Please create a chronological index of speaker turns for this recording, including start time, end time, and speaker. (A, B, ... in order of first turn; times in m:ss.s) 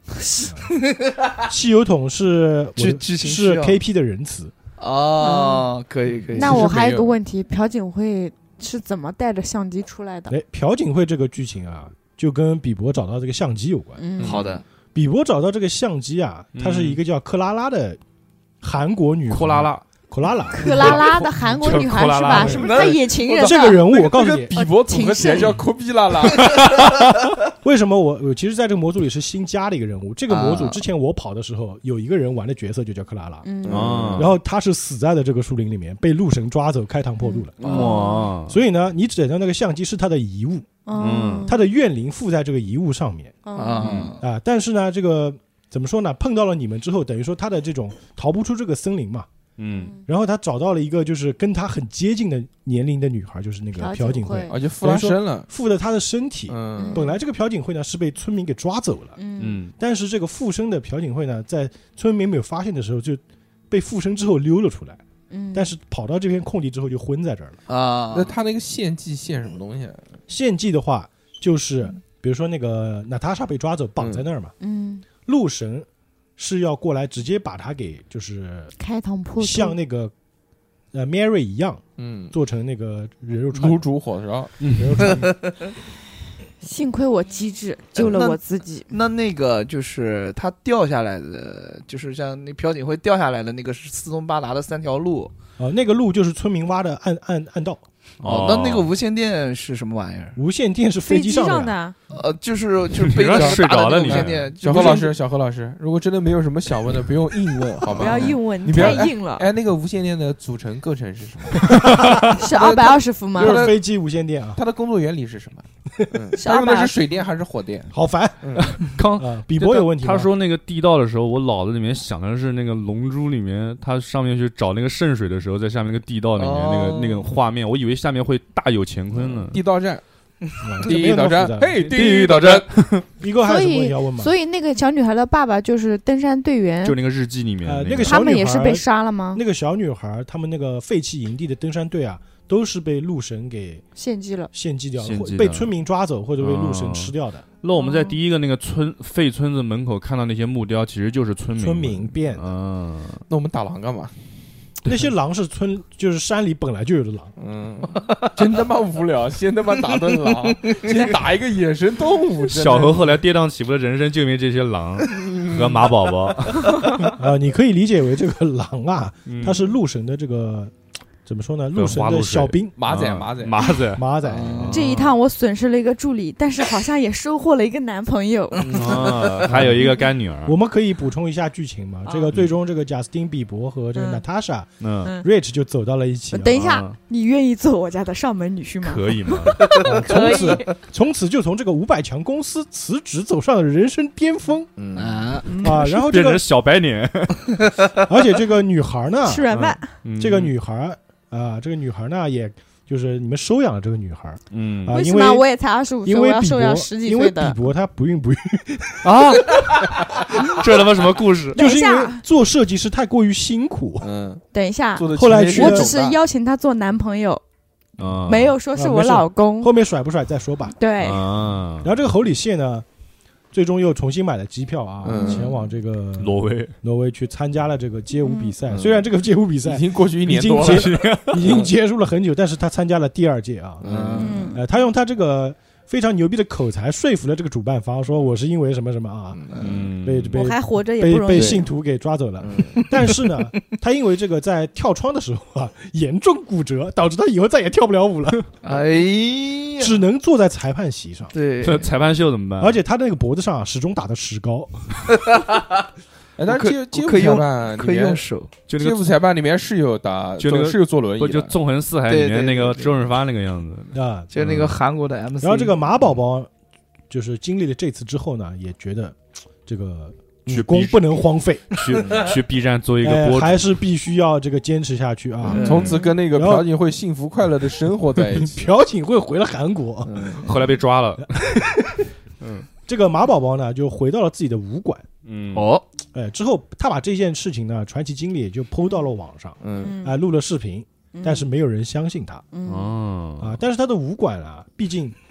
0:00.3-0:01.4 A
0:00.4-0:00.8 B
0:01.4-0:04.5 B
0:02.8-0:03.8 A
0:04.8-0:06.8 A
0:05.2-0:05.7 C
0:06.3-0:07.1 D
0:06.3-0:10.4 C
0:10.3-0:14.0 B
0:14.0-0:14.5 C
0:14.2-0:14.5 D
0:14.2-0:14.6 A
0:14.9-0:18.0 B
0:16.5-0:17.0 E
0:18.6-0:21.1 B
0:19.3-0:19.8 E
0:20.6-0:23.8 C
0:20.6-0:21.2 A
0:20.6-0:22.7 E
0:22.3-0:24.1 A
0:23.4-0:24.5 B
0:24.1-0:26.7 D
0:24.5-0:25.6 C
0:27.6-0:37.6 B
0:30.3-0:30.8 A
0:33.4-0:34.0 C
0:33.6-0:34.3 D
0:33.7-0:34.3 E
0:37.2-0:38.3 C
0:37.6-0:38.6 E
0:37.6-0:37.9 A
0:38.5-0:40.7 B
0:40.8-0:41.6 C
0:40.9-0:41.5 E
0:41.4-0:43.4 B
0:43.4-0:44.0 C
0:43.6-0:44.2 A
0:43.8-0:44.2 D
0:44.2-0:49.3 B
0:49.6-0:49.9 E
0:49.7-0:50.0 C
0:50.0-0:59.2 B
0:53.8-0:54.6 C
0:54.5-0:55.5 D
0:56.5-0:57.1 D
0:56.8-0:57.1 C
0:59.2-0:59.6 C
0:59.4-0:59.7 E
0:59.8-1:05.0 B
1:05.3-1:05.7 C
1:05.5-1:07.6 B
1:07.7-1:08.3 A
1:08.1-1:10.1 D
1:10.3-1:14.5 B
1:14.0-1:14.2 D
1:14.6-1:15.0 C
1:15.2-1:18.7 B
1:18.8-1:19.8 C
1:19.4-1:20.1 B
1:20.9-1:23.8 B
1:22.0-1:22.4 D
1:23.5-1:24.5 D
1:24.6-1:25.0 E
1:24.7-1:25.6 B
1:26.6-1:28.9 C
1:28.0-1:35.3 A
1:35.6-1:37.8 B
1:38.2-1:38.9 E
1:38.2-1:40.4 A
1:40.4-1:41.8 B
1:41.0-1:41.9 C
1:42.1-1:45.1 A
1:42.9-1:44.5 E
1:43.3-1:53.8 D
1:47.9-1:49.5 C
1:51.6-1:52.2 E
1:52.2-1:53.6 C
1:53.4-1:54.6 B
1:54.6-1:57.9 D
1:56.3-1:57.0 C
1:57.9-2:00.3 B
1:58.4-1:58.8 D
1:58.6-2:09.6 E
2:06.4-2:07.3 A
2:09.2-2:10.0 D
2:10.6-2:12.0 B
2:10.8-2:12.7 D
2:11.9-2:13.0 E
2:13.2-2:14.3 B
2:13.4-2:17.0 C
2:16.8-2:18.2 E
2:17.6-2:23.8 B
2:18.0-2:19.4 C
2:24.0-2:24.5 C
2:24.5-2:27.4 B
2:25.0-2:25.7 E
2:26.4-2:33.2 E
2:27.8-2:28.2 C
2:31.6-2:32.5 B
2:33.3-2:34.1 D
2:34.8-2:37.3 B
2:37.4-2:43.1 D
2:40.0-2:41.1 A
2:42.5-2:47.1 E
2:45.1-2:45.8 D
2:47.1-2:50.7 B
2:49.2-2:49.6 E
2:51.2-2:52.7 B
2:51.7-2:55.1 E
2:52.8-2:53.6 D
2:53.9-2:54.8 B
2:54.2-2:54.8 A
2:54.7-2:59.2 C
2:58.6-2:59.5 A
2:58.6-3:00.6 E
2:59.4-3:06.6 B
3:02.0-3:02.3 C
3:03.9-3:04.2 C
3:04.8-3:05.1 E
3:06.3-3:10.7 C
3:06.5-3:07.0 E
3:08.8-3:09.8 E
3:09.7-3:10.3 A
3:09.8-3:14.7 B
3:14.8-3:15.2 D
3:15.0-3:15.5 A
3:15.4-3:15.9 C
3:15.6-3:16.4 B
3:15.6-3:17.7 E
3:18.0-3:19.5 B
3:19.2-3:19.9 C
3:19.5-3:20.5 E
3:20.2-3:25.5 B
3:24.5-3:25.0 E
3:24.9-3:27.6 C
3:26.0-3:29.4 B
3:29.0-3:31.6 E
3:31.5-3:34.1 B
3:31.5-3:32.2 C
3:34.0-3:34.4 D
3:34.5-3:37.4 C
3:35.0-3:36.2 D
3:35.1-3:35.9 B
3:38.0-3:38.6 E
3:38.2-3:39.7 C
3:38.7-3:40.8 B
3:40.8-3:41.2 C
3:41.0-3:41.9 E
3:41.8-3:42.8 B
3:43.5-3:53.8 B
3:45.0-3:45.5 D
3:45.2-3:45.5 C
3:46.2-3:46.7 E
3:48.2-3:48.5 C
3:48.7-3:49.1 D
3:49.6-3:51.7 D
3:50.5-3:51.5 E
3:53.8-3:54.4 D
3:53.8-3:54.5 A
3:54.2-3:54.6 C
3:54.5-3:59.4 B
3:59.3-3:59.9 D
3:59.6-4:00.4 E
4:00.0-4:08.4 B
4:00.3-4:01.6 C
4:01.3-4:01.6 D
4:02.4-4:02.9 D
4:02.8-4:03.2 A
4:08.6-4:10.0 A
4:08.7-4:09.0 D
4:09.8-4:11.3 B
4:11.3-4:11.9 A
4:11.6-4:12.8 E
4:12.6-4:15.1 B
4:15.1-4:15.7 A
4:16.4-4:21.6 D
4:16.5-4:18.5 A
4:18.7-4:19.0 E
4:20.4-4:24.8 E
4:22.1-4:23.0 A
4:23.9-4:24.3 B
4:24.3-4:25.7 A
4:25.4-4:26.5 B
4:27.1-4:32.0 B
4:30.5-4:33.7 E
4:33.0-4:36.6 B
4:35.5-4:36.0 A
4:35.5-4:38.6 D
4:38.3-4:40.4 B
4:40.0-4:40.4 D
4:40.4-4:41.6 E
4:41.2-4:42.1 B
4:42.4-4:42.7 E
4:42.9-4:45.0 B
4:45.2-4:45.7 E
4:45.5-4:45.8 A
4:46.1-4:52.4 B
4:49.6-4:50.0 D
4:49.8-4:50.2 C
4:51.1-4:51.5 C
4:52.5-4:52.9 C
4:52.6-4:53.6 E
4:53.4-4:55.2 B